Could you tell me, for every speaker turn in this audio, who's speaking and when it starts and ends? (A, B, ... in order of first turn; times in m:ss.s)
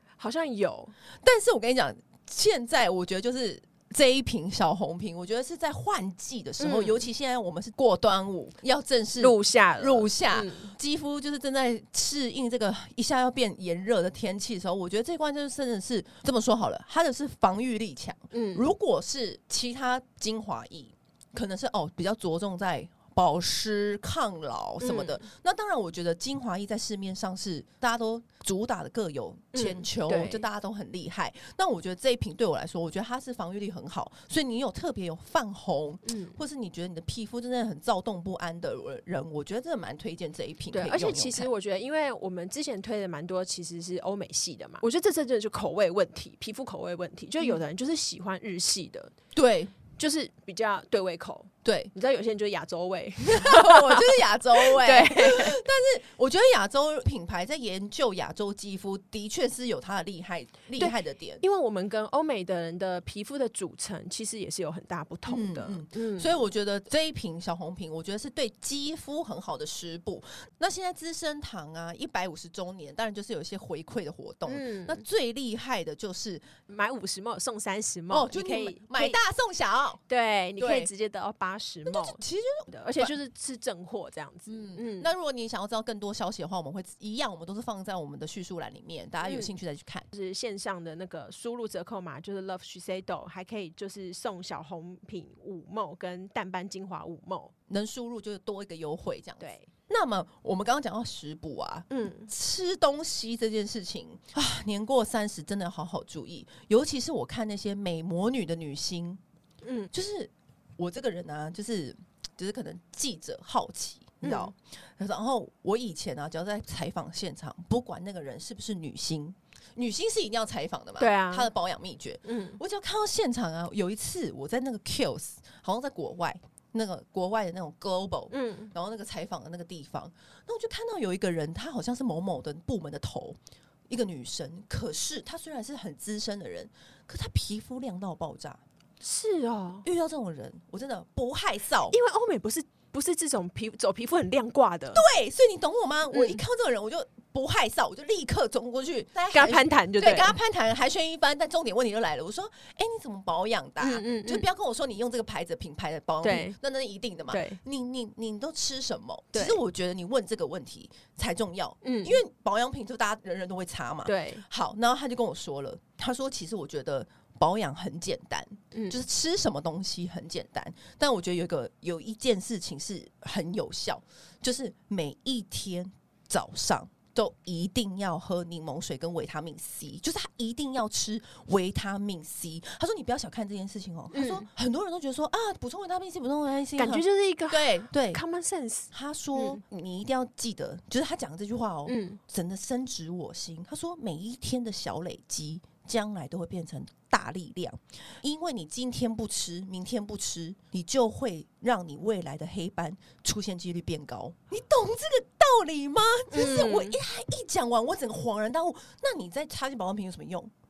0:00.2-0:00.9 A
0:01.2-0:41.5 B
0:06.6-0:07.0 A
0:09.2-0:10.7 A
0:18.3-0:18.7 A
0:24.8-0:25.2 A
0:29.5-0:30.4 A
0:36.0-0:36.4 A
0:40.7-0:49.1 A
0:49.3-0:49.8 B
0:49.9-0:55.6 A
0:51.6-0:51.9 B
0:53.3-1:01.4 B
1:00.8-1:06.4 A
1:05.3-1:16.5 B
1:14.5-1:15.0 A
1:16.7-1:19.2 A
1:18.1-1:20.0 B
1:20.1-1:25.1 A
1:20.6-1:20.9 B
1:21.9-1:23.1 B
1:24.5-1:30.1 B
1:29.2-1:29.5 A
1:30.1-1:37.5 A
1:37.7-1:49.2 B
1:39.4-1:39.7 A
1:41.9-1:42.3 A
1:49.6-1:49.9 A
1:49.9-2:13.4 B
1:54.2-1:54.5 A
2:01.0-2:01.5 A
2:02.2-2:02.6 A
2:08.3-2:08.7 A
2:13.9-2:18.6 B
2:19.0-2:19.8 A
2:19.8-2:22.0 B
2:21.9-2:25.0 A
2:24.9-3:08.2 B
2:26.1-2:26.4 A
2:29.3-2:30.4 A
2:33.8-2:34.4 A
2:36.2-2:36.6 A
2:37.3-2:37.6 A
2:39.3-2:39.6 A
2:41.8-2:42.2 A
2:44.0-2:44.4 A
2:48.7-2:49.0 A
3:04.1-3:04.5 A
3:06.8-3:09.6 A
3:08.9-3:30.5 B
3:11.8-3:12.2 A
3:26.3-3:27.0 A